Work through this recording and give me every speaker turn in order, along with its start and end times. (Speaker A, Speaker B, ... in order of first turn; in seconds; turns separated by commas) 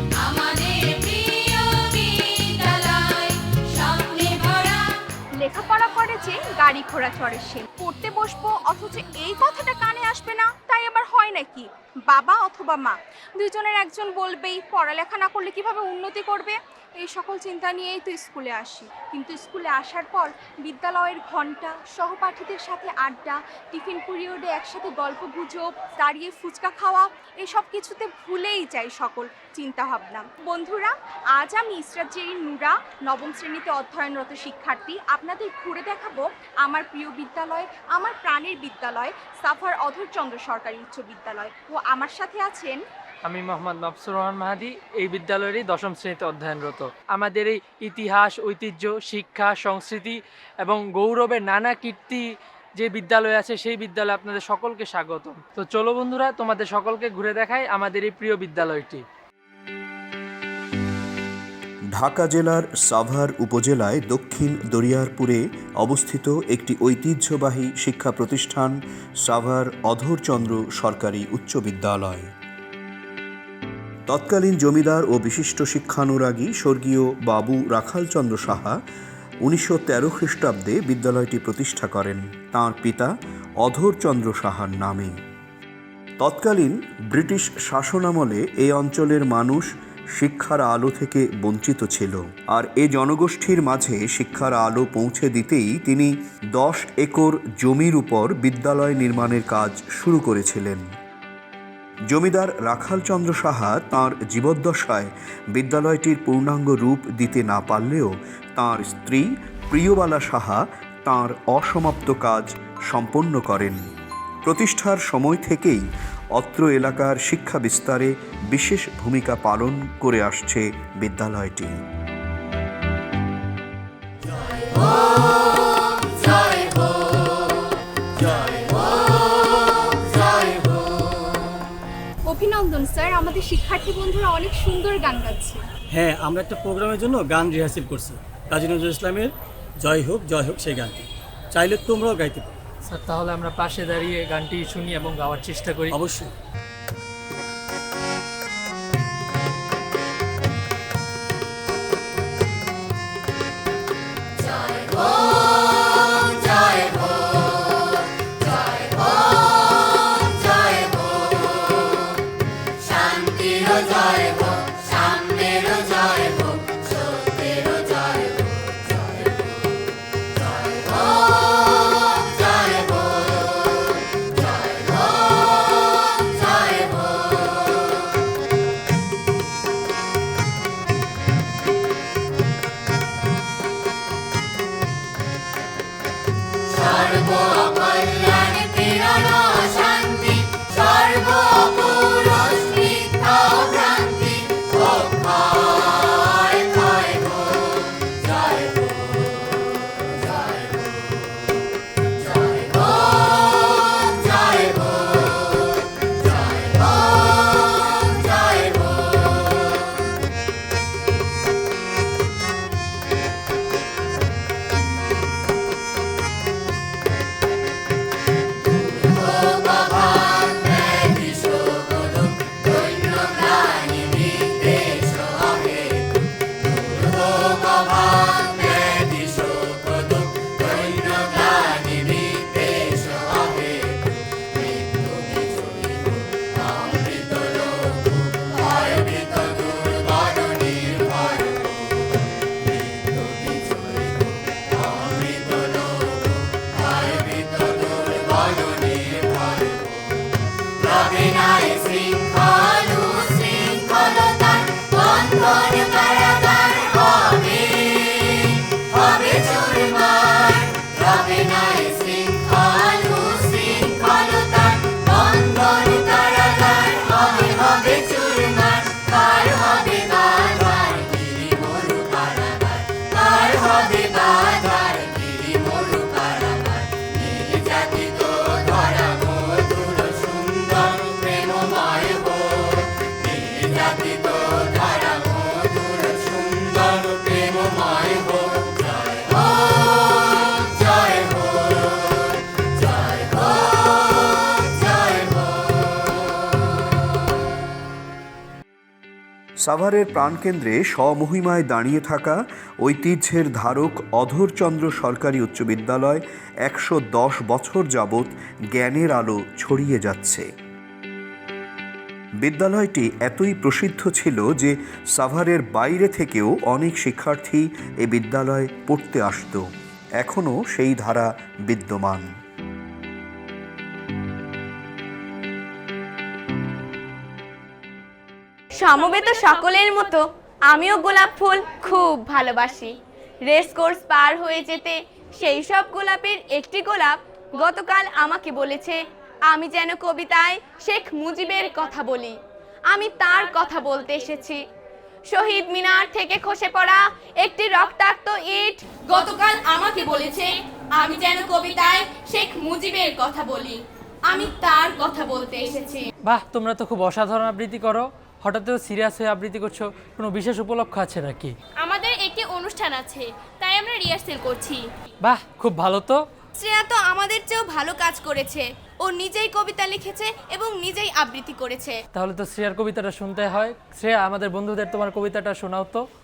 Speaker A: 0.2-4.9, Speaker B: 5.4-42.8, Speaker C: 43.2-59.0, Speaker D: 61.9-72.3, Speaker D: 74.1-78.8, Speaker D: 79.5-85.2, Speaker D: 86.2-100.9, Speaker D: 102.1-113.9, Speaker D: 114.4-121.8, Speaker B: 132.3-135.7, Speaker E: 135.9-139.3, Speaker E: 139.8-142.5, Speaker C: 142.9-146.0, Speaker E: 145.9-146.3, Speaker D: 299.6-310.5, Speaker D: 312.4-322.3, Speaker F: 328.8-333.0, Speaker F: 333.5-342.4, Speaker F: 342.9-344.6, Speaker F: 345.3-356.0, Speaker C: 356.3-361.5, Speaker A: 362.2-363.1, Speaker A: 364.2-364.6, Speaker C: 365.2-366.2, Speaker F: 366.6-372.0, Speaker C: 372.1-376.0